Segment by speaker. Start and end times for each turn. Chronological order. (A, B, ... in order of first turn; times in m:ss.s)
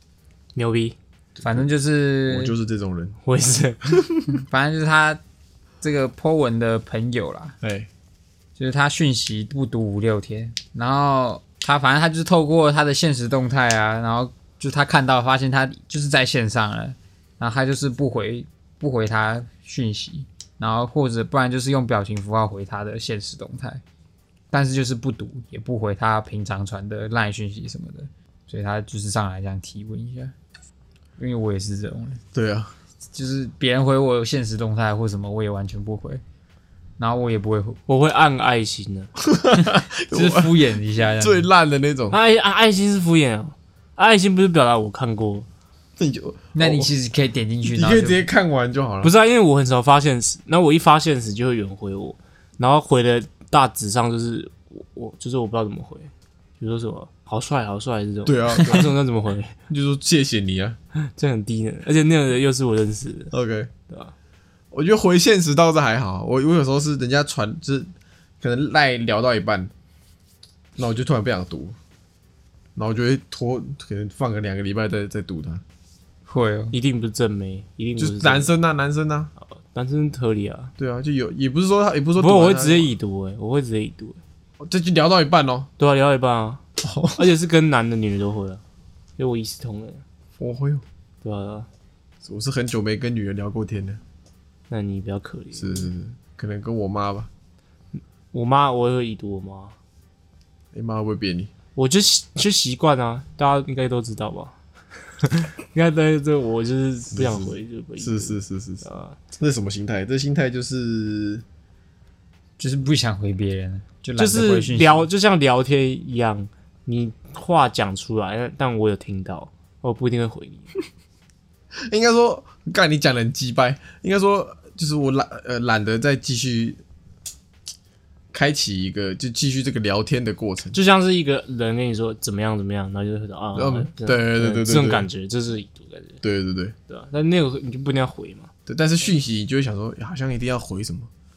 0:00.6-0:01.0 A
0:01.4-0:01.7 B
0:01.4-0:02.5 C
0:02.3-0:03.2 B
0:03.2-0:04.0 A
0:04.3-0:05.2 C
0:05.8-0:07.6 C
0:07.6-0:07.9 B
0:08.6-0:23.8 C
0:24.5-0:30.3 C
0:31.2-0:32.2 C
0:32.3-0:32.7 B
0:33.1-0:36.2 C
0:37.0-0:37.8 C
0:37.9-0:39.1 A
0:39.2-0:42.2 B
0:39.6-0:41.5 C
0:42.1-0:45.5 A
0:46.0-0:46.9 B
0:46.6-0:48.2 C
0:47.6-0:49.1 B
0:49.0-0:59.6 A
0:58.2-0:58.9 B
0:59.7-1:00.8 B
1:01.0-1:03.3 A
1:03.3-1:03.7 B
1:04.7-1:07.9 B
1:08.4-1:09.7 B
1:10.8-1:11.8 B
1:12.8-1:15.6 B
1:16.3-1:16.7 C
1:16.7-1:18.5 A
1:18.0-1:19.3 B
1:19.6-1:20.7 A
1:20.8-1:22.9 B
1:22.2-1:24.2 A
1:24.6-1:25.7 B
1:25.8-1:26.6 A
1:26.8-1:27.2 B
1:27.1-1:28.6 A
1:29.2-1:30.0 A
1:30.4-1:30.8 B
1:31.2-1:31.7 A
1:32.2-1:34.0 B
1:34.7-1:35.9 A
1:35.5-1:37.3 B
1:38.3-1:39.7 A
1:40.7-1:41.5 B
1:41.7-1:44.5 A
1:45.2-1:49.2 A
1:47.1-1:51.4 B
1:52.6-1:55.0 C
1:54.2-2:00.7 A
2:01.9-2:06.8 B
2:08.3-2:10.8 B
2:10.7-2:16.2 A
2:13.5-2:15.1 B
2:16.2-2:16.7 B
2:16.9-2:18.5 A
2:18.6-2:21.1 B